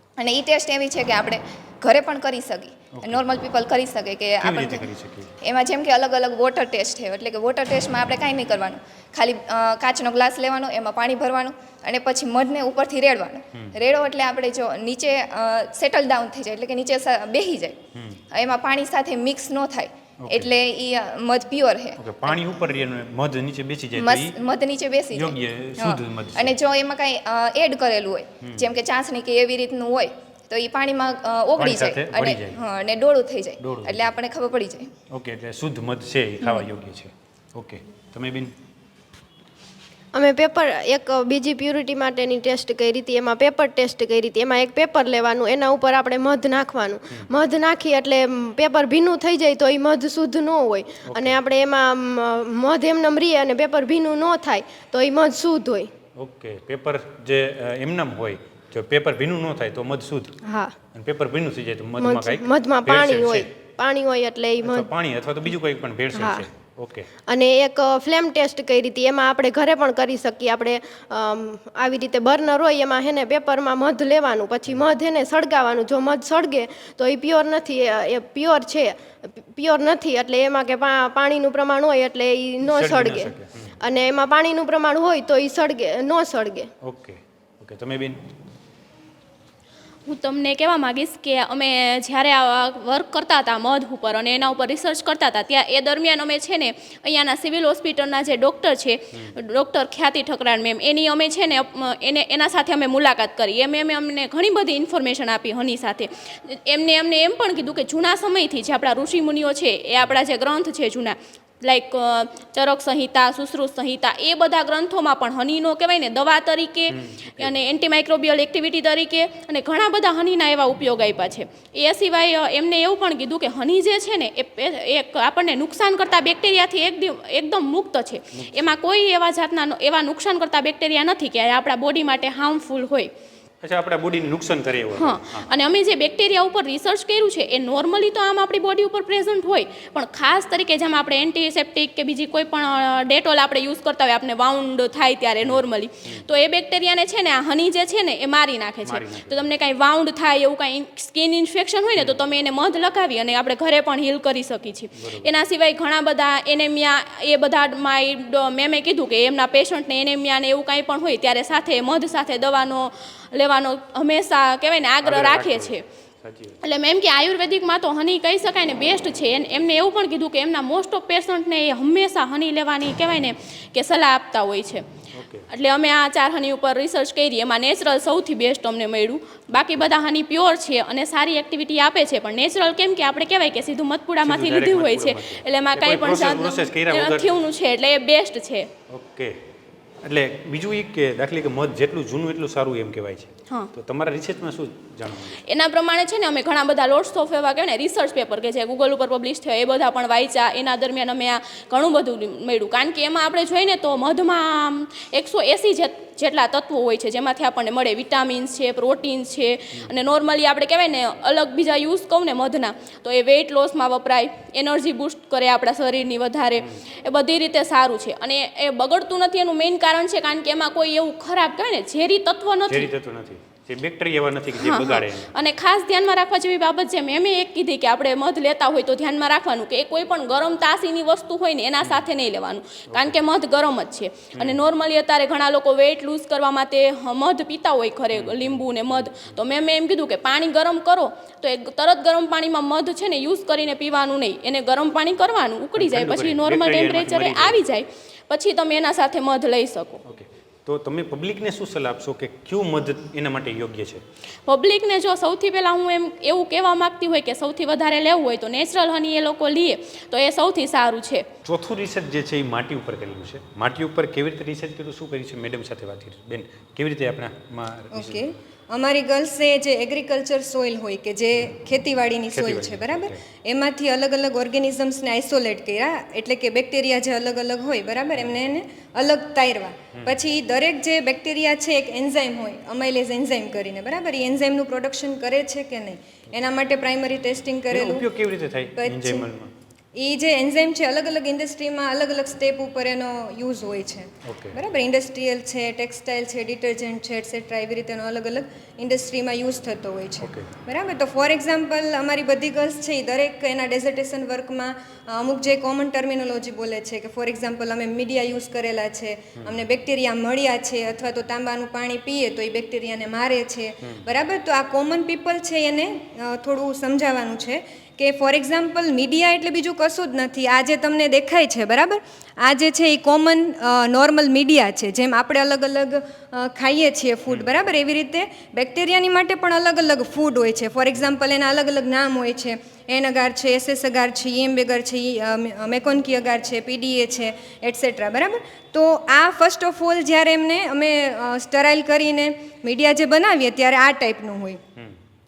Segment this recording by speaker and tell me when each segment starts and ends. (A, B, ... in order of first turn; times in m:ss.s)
0:00.2-0:04.9 A
0:02.9-0:03.3 B
0:04.4-0:05.3 B
0:05.4-0:17.8 A
0:18.0-0:18.2 B
0:18.3-0:22.4 A
0:20.2-0:20.5 B
0:22.0-0:24.4 B
0:24.0-0:34.9 A
0:25.1-0:26.6 B
0:28.4-0:28.7 B
0:31.6-0:32.6 B
0:33.6-0:34.1 B
0:35.1-0:38.5 B
0:40.1-0:55.9 C
0:51.1-0:51.4 B
0:56.2-1:00.4 B
1:00.4-1:00.7 C
1:00.9-1:03.5 B
1:02.0-1:04.9 C
1:04.6-1:07.1 B
1:06.1-1:06.5 C
1:07.3-1:26.7 C
1:22.6-1:23.7 B
1:26.8-1:28.2 B
1:30.1-2:13.1 D
1:56.9-1:57.5 B
2:08.3-2:08.8 B
2:13.6-2:15.5 B
2:15.0-2:45.8 D
2:25.4-2:26.2 B
2:28.8-2:29.5 B
2:34.9-2:35.4 B
2:45.0-2:46.6 B
2:46.6-2:54.9 D
2:55.1-2:55.5 B
2:55.5-3:08.7 D
2:59.5-2:59.9 B
3:04.2-3:07.3 B
3:08.9-3:09.4 B
3:10.0-3:15.4 B
3:15.5-3:42.9 D
3:42.7-3:45.3 B
3:44.6-4:10.0 D
3:52.9-3:53.2 B
3:54.4-3:54.7 B
3:58.1-3:59.4 B
4:05.8-4:07.6 B
4:10.0-4:14.0 B
4:14.5-4:21.3 D
4:21.4-4:28.4 B
4:27.9-4:48.1 E
4:32.3-4:33.2 B
4:40.0-4:40.2 B
4:47.7-4:49.5 B
4:48.8-4:49.3 E
4:50.0-5:44.6 E
4:54.2-4:54.6 B
5:00.2-5:00.5 B
5:09.4-5:09.6 B